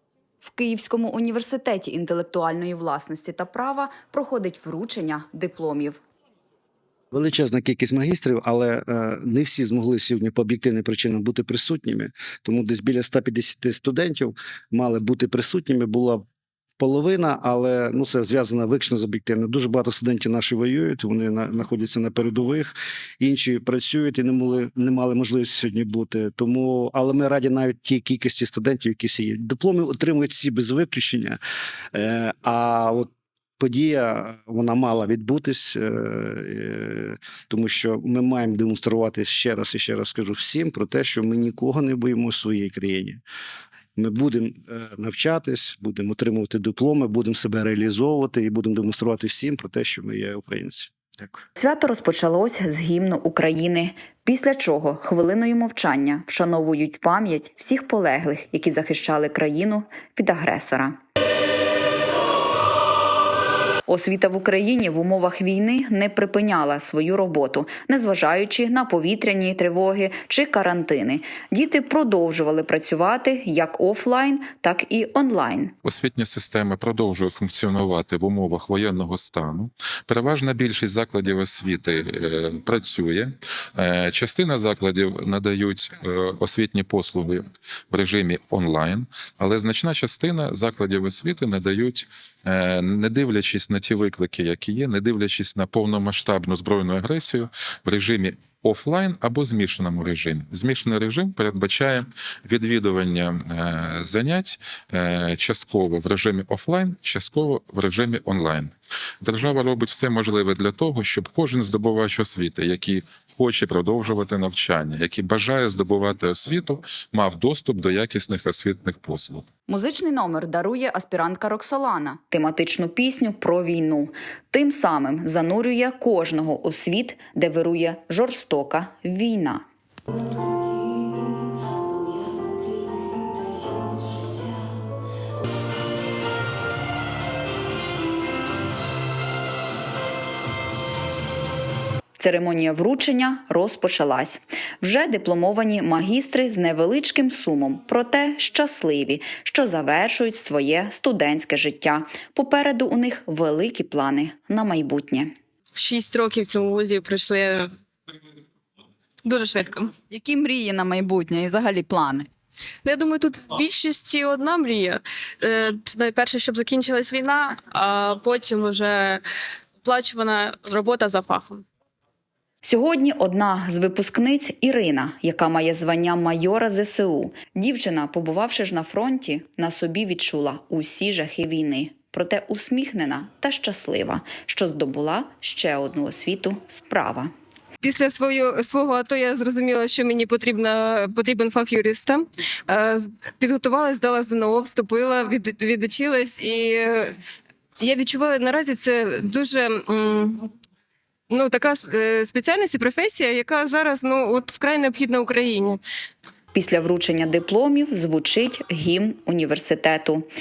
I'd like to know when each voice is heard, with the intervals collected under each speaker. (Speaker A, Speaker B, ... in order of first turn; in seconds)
Speaker A: 0.4-6.0, 51.6-61.0, 63.9-75.7, 119.7-129.6, 142.2-155.3, 160.1-162.3, 172.6-187.3, 206.5-210.3
Speaker B: 7.1-16.2, 16.8-31.4, 31.9-43.2, 44.0-51.4
Speaker C: 75.8-119.5
Speaker D: 155.8-157.7, 159.2-159.9, 162.8-169.2, 169.8-171.6
Speaker E: 187.8-197.1, 197.8-200.5, 201.3-205.8